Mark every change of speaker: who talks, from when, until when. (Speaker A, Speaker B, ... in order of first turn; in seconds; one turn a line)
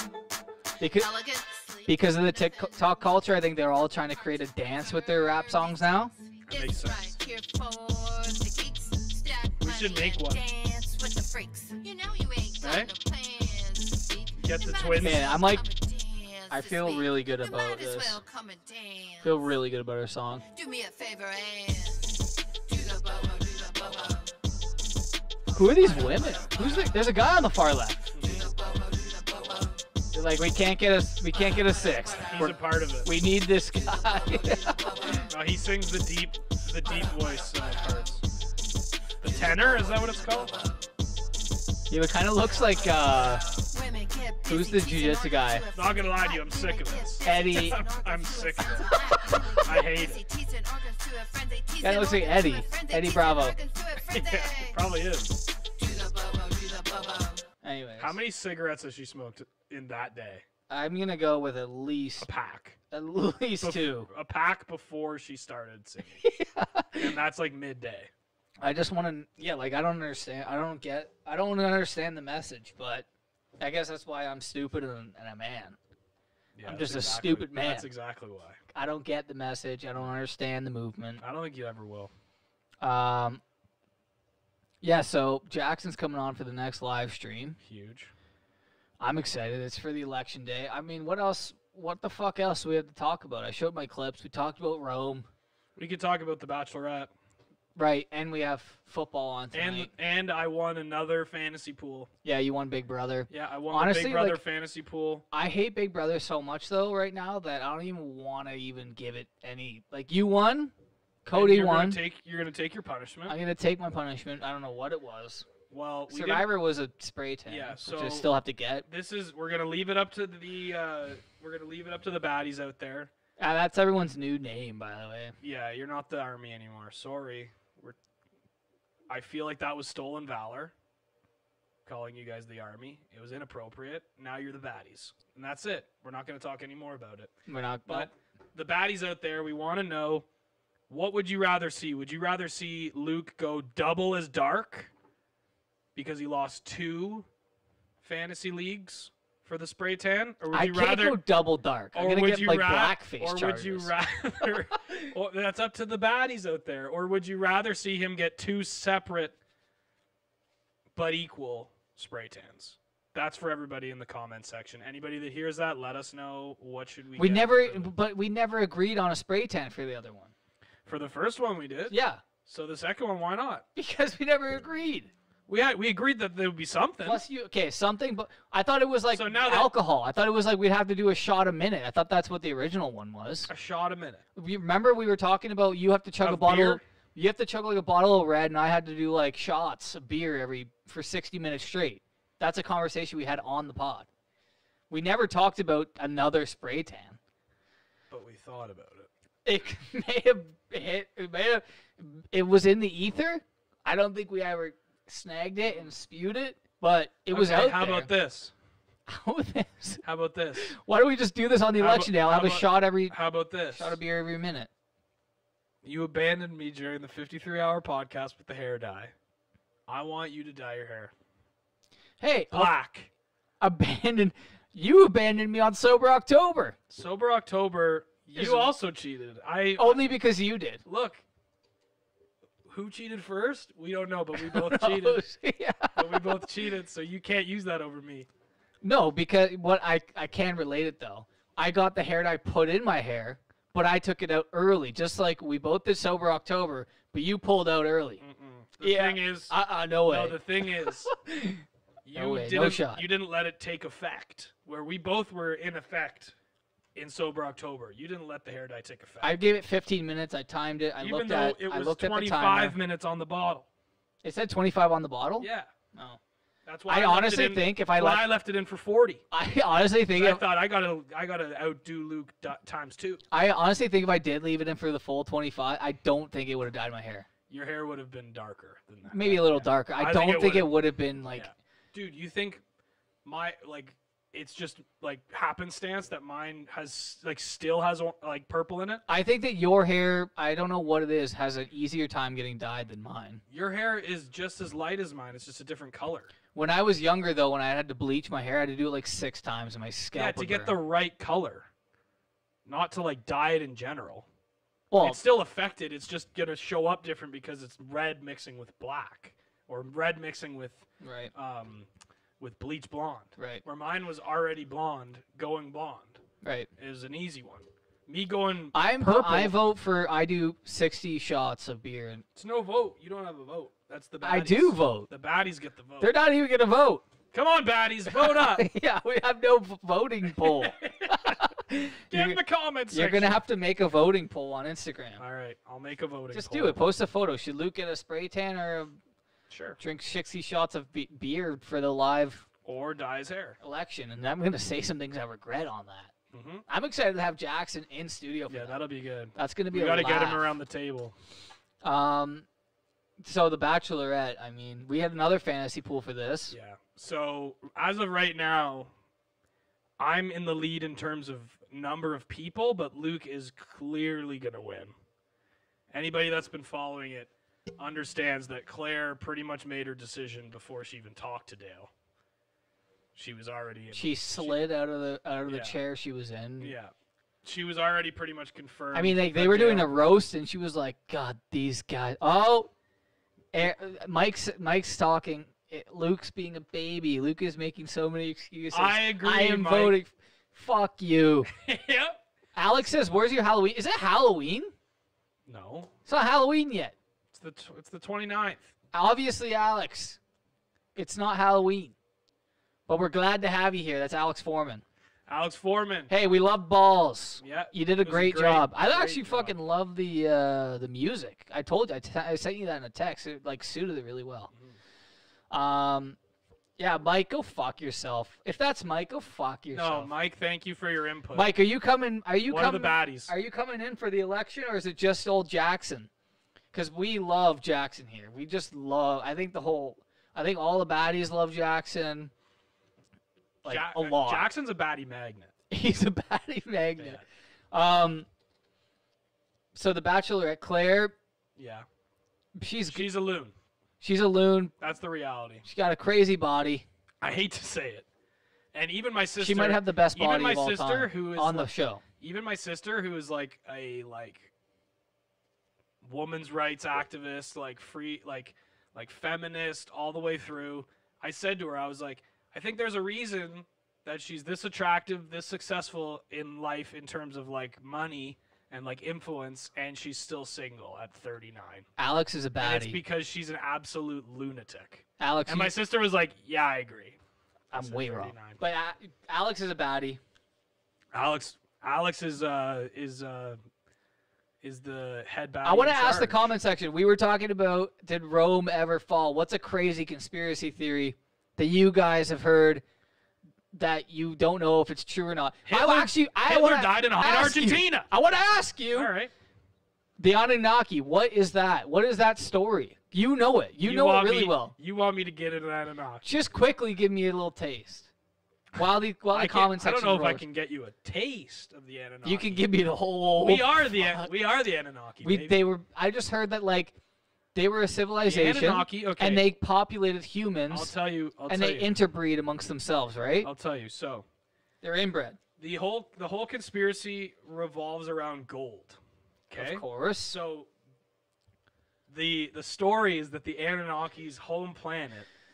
Speaker A: 0.8-1.1
Speaker B: 0.8-19.5
Speaker A: 1.9-6.1
Speaker C: 6.5-7.2
Speaker C: 9.6-10.4
Speaker C: 12.6-12.9
Speaker C: 14.4-15.3
Speaker A: 15.0-15.6
Speaker A: 16.5-18.2
Speaker A: 19.2-20.4
Speaker B: 20.5-24.3
Speaker B: 25.5-26.9
Speaker A: 25.5-28.1
Speaker C: 28.1-28.5
Speaker B: 28.2-29.8
Speaker A: 30.1-35.2
Speaker B: 31.3-32.5
Speaker C: 32.3-33.1
Speaker B: 33.7-35.3
Speaker C: 35.3-38.2
Speaker B: 36.8-38.1
Speaker C: 39.2-40.6
Speaker B: 39.2-40.8
Speaker A: 41.9-43.5
Speaker B: 42.5-54.8
Speaker A: 44.5-45.6
Speaker C: 45.7-50.2
Speaker A: 47.2-47.8
Speaker A: 51.8-53.6
Speaker C: 54.0-55.3
Speaker B: 55.8-57.4
Speaker A: 57.6-58.2
Speaker C: 58.0-60.5
Speaker A: 60.7-62.3
Speaker C: 62.2-62.8
Speaker A: 62.9-64.1
Speaker C: 63.6-66.2
Speaker A: 66.2-67.2
Speaker C: 67.0-68.1
Speaker A: 68.6-73.1
Speaker A: 73.6-75.8
Speaker C: 76.5-78.6
Speaker A: 76.7-77.9
Speaker A: 78.7-81.2
Speaker C: 81.2-82.1
Speaker A: 82.8-83.4
Speaker A: 84.8-87.6
Speaker C: 87.6-88.1
Speaker A: 89.0-95.3
Speaker C: 95.8-97.1
Speaker A: 97.7-99.9
Speaker C: 99.5-102.1
Speaker A: 102.2-104.4
Speaker C: 103.3-105.2
Speaker A: 105.3-110.7
Speaker A: 111.2-112.0
Speaker C: 111.3-113.4
Speaker A: 113.3-115.5
Speaker C: 115.7-116.5
Speaker A: 116.1-118.8
Speaker C: 117.5-118.3
Speaker C: 118.8-123.1
Speaker A: 123.4-125.4
Speaker C: 125.4-128.0
Speaker C: 129.1-130.7
Speaker C: 131.8-137.3
Speaker A: 137.5-138.1
Speaker C: 137.9-140.3
Speaker C: 140.9-144.9
Speaker C: 145.9-147.3
Speaker C: 148.0-151.2
Speaker A: 150.5-153.9
Speaker C: 151.9-159.4
Speaker C: 160.9-167.9
Speaker A: 167.2-170.3
Speaker C: 170.9-173.6
Speaker A: 171.9-172.2
Speaker A: 173.7-175.1
Speaker C: 175.5-177.2
Speaker A: 177.0-183.5
Speaker C: 179.1-179.7
Speaker C: 183.5-184.2
Speaker A: 184.4-194.1
Speaker C: 186.2-186.8
Speaker A: 194.9-197.2
Speaker C: 198.1-199.1
Speaker A: 199.4-208.1
Speaker C: 205.7-205.9
Speaker C: 207.3-208.5
Speaker A: 209.1-210.0
Speaker C: 210.0-210.7
Speaker A: 210.6-214.7
Speaker C: 211.8-214.0
Speaker C: 215.8-219.1
Speaker C: 219.9-221.1
Speaker A: 222.2-222.7
Speaker C: 222.5-223.1
Speaker A: 223.6-226.8
Speaker C: 226.9-230.0
Speaker A: 228.3-228.7
Speaker A: 229.8-230.8
Speaker C: 230.8-231.2
Speaker C: 232.7-235.2
Speaker A: 234.3-236.5
Speaker C: 235.9-238.3
Speaker A: 238.8-248.2
Speaker C: 248.2-251.1
Speaker A: 248.8-251.6
Speaker C: 252.1-256.3
Speaker A: 252.1-253.1
Speaker C: 256.9-259.4
Speaker A: 259.2-262.8
Speaker C: 261.0-263.7
Speaker A: 264.2-266.2
Speaker C: 265.4-265.7
Speaker C: 266.7-269.2
Speaker A: 266.9-268.3
Speaker A: 269.3-270.4
Speaker C: 270.1-273.2
Speaker A: 273.3-277.3
Speaker C: 277.5-282.6
Speaker A: 279.1-281.5
Speaker C: 283.2-289.0
Speaker A: 289.1-293.4
Speaker C: 293.5-296.3
Speaker A: 296.5-300.8
Speaker C: 300.1-301.7
Speaker C: 302.7-304.3
Speaker A: 304.9-305.2
Speaker C: 305.0-311.9
Speaker A: 311.0-311.3
Speaker C: 312.4-316.2
Speaker A: 313.4-313.6
Speaker A: 316.4-316.7
Speaker C: 316.8-319.6
Speaker A: 318.7-322.2
Speaker C: 322.3-326.1
Speaker A: 324.2-325.1
Speaker A: 326.0-327.0
Speaker C: 327.3-328.7
Speaker A: 328.1-335.2
Speaker C: 330.4-331.4
Speaker C: 332.1-333.4
Speaker C: 335.2-336.8
Speaker A: 336.3-339.0
Speaker C: 339.5-339.8
Speaker A: 339.8-342.4
Speaker C: 342.6-343.6
Speaker A: 343.6-346.1
Speaker C: 346.3-346.7
Speaker A: 346.7-348.8
Speaker C: 348.5-351.1
Speaker A: 349.3-350.6
Speaker A: 351.8-352.4
Speaker A: 353.2-356.6
Speaker C: 356.5-358.9
Speaker C: 360.0-364.9
Speaker C: 365.9-371.9
Speaker C: 373.1-374.6
Speaker A: 373.9-376.7
Speaker C: 375.4-375.8
Speaker C: 376.6-376.9
Speaker C: 377.4-380.0
Speaker A: 378.9-382.7
Speaker A: 383.5-391.5
Speaker C: 388.7-390.0
Speaker C: 391.5-392.2
Speaker A: 392.5-394.7
Speaker C: 395.5-395.9
Speaker A: 396.1-396.9
Speaker C: 397.3-398.7
Speaker A: 398.9-400.2
Speaker A: 400.9-401.9
Speaker A: 402.9-404.8
Speaker C: 405.3-406.1
Speaker A: 406.1-414.5
Speaker C: 407.4-409.6
Speaker C: 414.5-414.8
Speaker A: 415.5-416.2
Speaker A: 416.8-420.1
Speaker C: 419.7-421.5
Speaker A: 421.3-426.1
Speaker C: 422.4-423.3
Speaker A: 426.7-432.3
Speaker A: 433.6-434.5
Speaker C: 433.6-435.5
Speaker A: 435.7-438.3
Speaker C: 437.0-437.2
Speaker A: 439.7-441.1
Speaker C: 441.6-441.9
Speaker A: 442.6-443.1
Speaker C: 442.9-443.5
Speaker A: 444.0-444.7
Speaker C: 444.8-445.6
Speaker A: 445.6-446.9
Speaker C: 447.2-448.1
Speaker C: 448.7-454.5
Speaker A: 449.4-452.0
Speaker C: 456.0-471.9
Speaker A: 472.0-473.0
Speaker C: 472.6-477.2
Speaker A: 475.2-475.7
Speaker C: 477.7-478.6
Speaker A: 477.7-480.2
Speaker C: 481.1-483.6
Speaker C: 484.6-486.5
Speaker A: 485.6-492.8
Speaker A: 493.7-499.1
Speaker C: 495.7-498.1
Speaker C: 498.9-499.3
Speaker A: 500.2-504.7
Speaker C: 503.8-506.2
Speaker A: 506.2-508.1
Speaker A: 508.7-510.4
Speaker C: 509.3-512.6
Speaker A: 512.2-514.3
Speaker C: 513.4-515.6
Speaker A: 515.2-517.0
Speaker A: 517.5-520.9
Speaker C: 518.2-519.5
Speaker C: 520.7-521.9
Speaker A: 521.5-523.5
Speaker C: 523.4-524.3
Speaker A: 524.8-525.4
Speaker C: 525.6-530.7
Speaker A: 529.5-530.4
Speaker C: 532.1-535.3